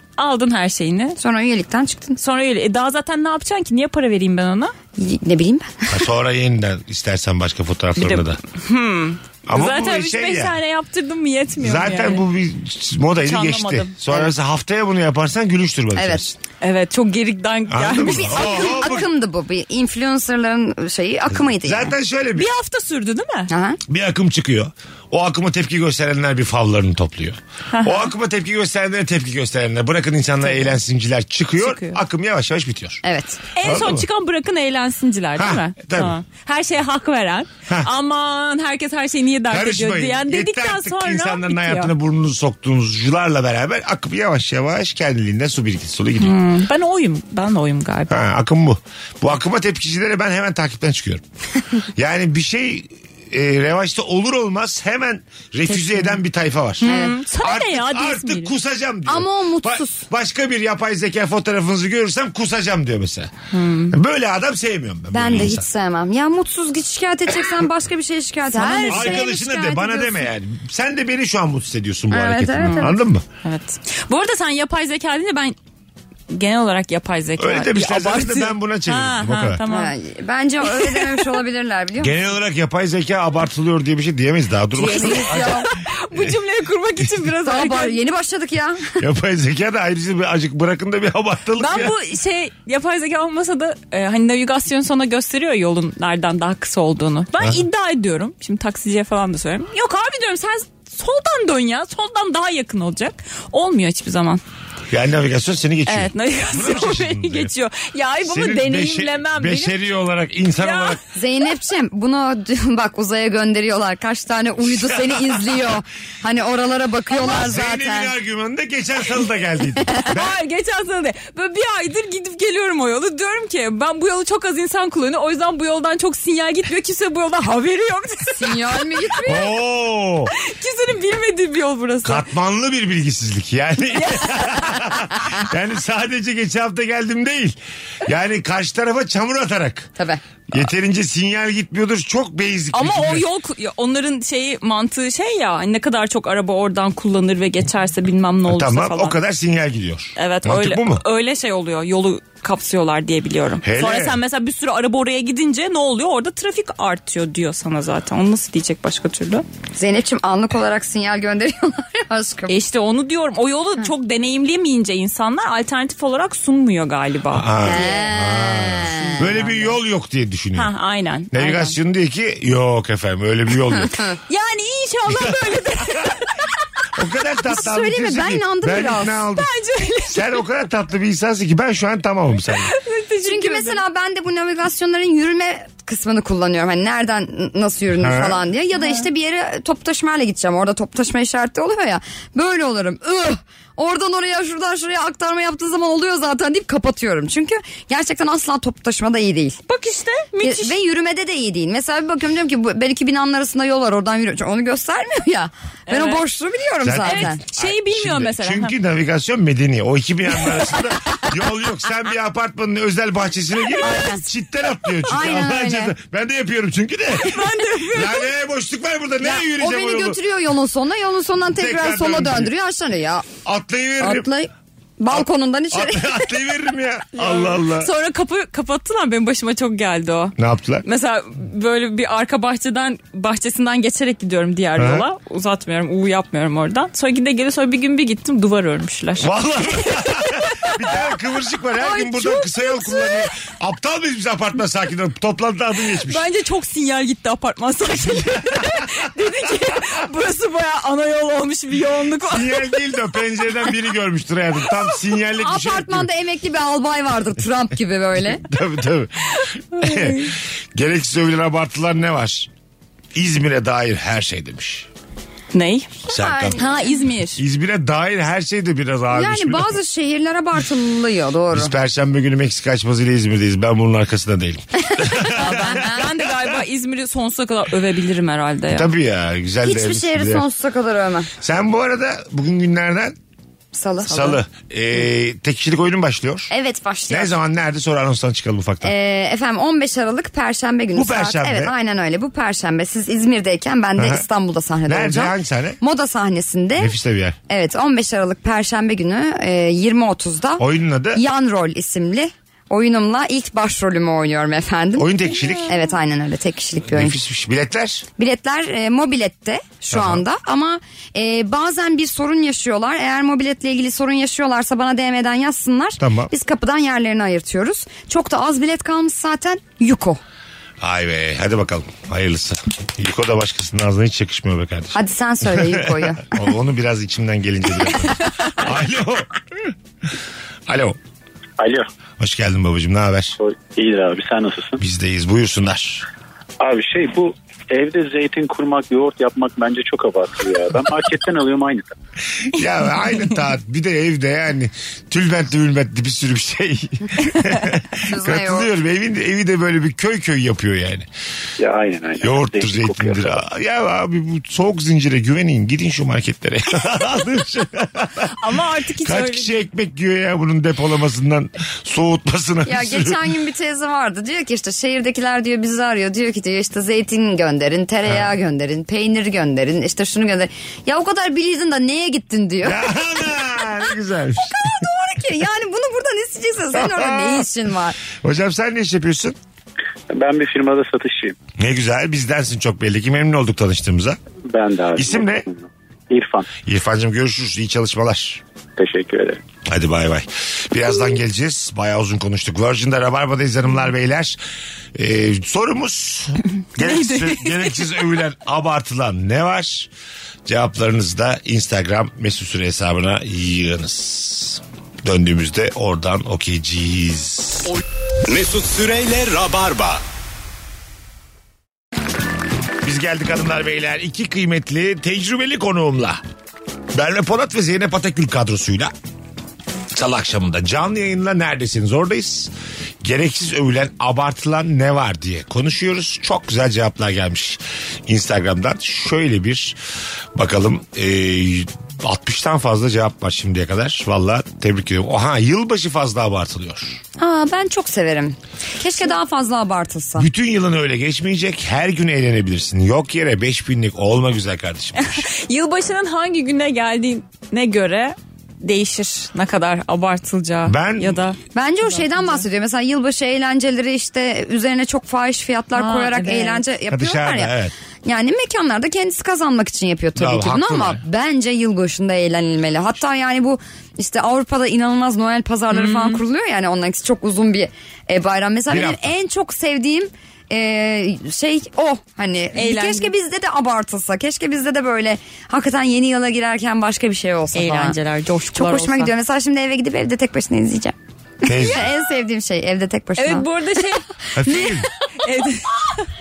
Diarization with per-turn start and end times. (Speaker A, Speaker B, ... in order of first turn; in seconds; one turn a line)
Speaker A: 0.2-1.2
Speaker B: 1.2-2.2
Speaker A: 2.2-4.7
Speaker B: 5.0-6.0
Speaker C: 5.9-8.4
Speaker A: 8.0-12.2
Speaker C: 9.5-10.6
Speaker C: 11.6-16.4
Speaker A: 13.2-13.9
Speaker B: 16.0-16.2
Speaker A: 16.6-19.0
Speaker C: 17.7-19.1
Speaker B: 18.0-21.9
Speaker C: 21.4-22.5
Speaker A: 22.4-23.5
Speaker B: 23.5-23.8
Speaker C: 23.9-33.0
Speaker A: 27.7-28.1
Speaker A: 30.4-30.8
Speaker A: 31.6-32.0
Speaker B: 33.0-33.4
Speaker A: 33.5-41.9
Speaker C: 33.6-34.0
Speaker C: 35.4-36.1
Speaker C: 39.5-46.4
Speaker A: 46.2-48.2
Speaker C: 48.1-51.2
Speaker C: 51.9-63.3
Speaker A: 55.7-56.1
Speaker A: 56.8-58.5
Speaker B: 56.9-57.2
Speaker B: 59.1-60.0
Speaker A: 63.5-64.0
Speaker C: 63.9-65.7
Speaker B: 65.1-70.2
Speaker A: 68.5-69.3
Speaker C: 68.9-73.2
Speaker B: 72.1-73.0
Speaker A: 72.6-75.5
Speaker A: 76.3-79.9
Speaker C: 77.4-79.6
Speaker B: 79.7-82.1
Speaker A: 80.7-81.4
Speaker C: 82.0-86.4
Speaker B: 84.8-85.7
Speaker A: 84.8-88.0
Speaker B: 87.4-89.0
Speaker C: 89.0-91.9
Speaker A: 91.6-104.4
Speaker C: 104.9-107.5
Speaker A: 105.9-109.8
Speaker C: 108.2-111.0
Speaker A: 110.6-111.0
Speaker B: 111.1-118.1
Speaker C: 114.7-115.6
Speaker C: 117.1-120.4
Speaker A: 120.0-129.1
Speaker B: 128.4-129.5
Speaker C: 129.2-130.3
Speaker A: 130.3-132.2
Speaker C: 132.0-139.9
Speaker A: 133.9-134.9
Speaker B: 140.0-140.2
Speaker C: 140.5-143.2
Speaker A: 142.7-149.2
Speaker C: 148.5-151.0
Speaker A: 150.2-159.4
Speaker C: 153.6-154.2
Speaker B: 159.8-162.5
Speaker A: 162.5-168.0
Speaker C: 167.3-170.7
Speaker B: 167.6-169.7
Speaker A: 170.5-171.8
Speaker C: 171.3-174.1
Speaker A: 174.3-176.4
Speaker C: 175.1-176.1
Speaker C: 176.9-179.5
Speaker B: 177.5-179.2
Speaker A: 179.3-180.3
Speaker C: 180.1-182.7
Speaker A: 182.6-183.8
Speaker B: 183.2-199.6
Speaker C: 187.9-188.4
Speaker A: 188.8-189.0
Speaker A: 199.7-200.8
Speaker B: 200.4-207.4
Speaker A: 205.9-206.2
Speaker C: 206.8-220.2
Speaker A: 207.0-208.8
Speaker B: 213.8-214.2
Speaker B: 215.1-215.9
Speaker A: 217.1-218.3
Speaker B: 219.2-223.3
Speaker C: 221.6-222.5
Speaker C: 223.4-224.3
Speaker B: 224.0-226.3
Speaker C: 225.1-227.9
Speaker A: 227.1-240.9
Speaker C: 230.4-230.8
Speaker C: 234.8-235.1
Speaker C: 239.2-246.2
Speaker A: 241.8-243.2
Speaker A: 246.0-252.7
Speaker C: 248.1-248.9
Speaker C: 252.2-256.1
Speaker B: 255.4-258.4
Speaker C: 258.2-262.5
Speaker A: 259.4-260.3
Speaker C: 263.1-264.9
Speaker A: 265.5-266.0
Speaker C: 266.1-266.6
Speaker B: 266.1-266.7
Speaker A: 266.6-267.4
Speaker C: 267.4-269.8
Speaker B: 269.1-271.7
Speaker C: 271.5-276.2
Speaker A: 275.2-278.9
Speaker B: 275.4-276.0
Speaker C: 278.7-280.4
Speaker B: 279.6-281.3
Speaker C: 281.4-283.1
Speaker B: 283.7-284.4
Speaker C: 284.0-286.5
Speaker B: 286.5-287.3
Speaker C: 287.1-288.9
Speaker B: 288.8-296.9
Speaker C: 290.9-291.7
Speaker C: 293.9-294.2
Speaker C: 294.9-295.8
Speaker C: 296.8-297.4
Speaker B: 297.5-300.6
Speaker C: 300.6-301.2
Speaker B: 301.1-307.2
Speaker C: 305.0-305.8
Speaker C: 306.9-308.1
Speaker B: 308.1-320.2
Speaker C: 309.9-310.2
Speaker C: 316.0-316.3
Speaker C: 320.8-329.7
Speaker B: 324.9-326.4
Speaker C: 330.7-331.0
Speaker D: 331.6-331.9
Speaker C: 332.2-333.4
Speaker D: 333.4-334.8
Speaker C: 334.8-336.1
Speaker D: 336.6-341.9
Speaker C: 342.3-351.1
Speaker B: 348.0-348.7
Speaker D: 351.6-353.4
Speaker C: 352.2-358.3
Speaker A: 358.2-359.5
Speaker C: 359.0-363.3
Speaker B: 362.6-373.6
Speaker C: 372.6-374.8
Speaker B: 374.4-378.0
Speaker C: 376.7-377.5
Speaker C: 378.1-379.4
Speaker D: 380.1-381.4
Speaker C: 381.6-384.2
Speaker D: 384.5-386.5
Speaker C: 384.9-385.4
Speaker C: 386.6-388.4
Speaker D: 388.8-389.4
Speaker C: 389.6-394.4
Speaker C: 394.9-399.9
Speaker A: 396.8-397.8
Speaker C: 400.4-407.8
Speaker E: 407.7-410.0
Speaker C: 412.8-416.2
Speaker C: 416.9-418.9
Speaker C: 419.9-422.5
Speaker C: 423.0-429.8
Speaker C: 430.4-437.0
Speaker B: 437.2-440.3
Speaker C: 440.2-445.2
Speaker A: 444.9-452.4
Speaker C: 450.6-451.2
Speaker B: 451.5-457.5
Speaker A: 455.7-456.6
Speaker C: 456.9-457.7
Speaker B: 458.1-478.0
Speaker C: 460.1-461.0
Speaker A: 465.7-466.2
Speaker C: 468.7-469.1
Speaker A: 472.5-473.1
Speaker A: 477.5-479.1
Speaker B: 478.5-483.5
Speaker C: 481.4-481.9
Speaker A: 481.5-481.8
Speaker A: 483.2-486.1
Speaker C: 484.3-484.9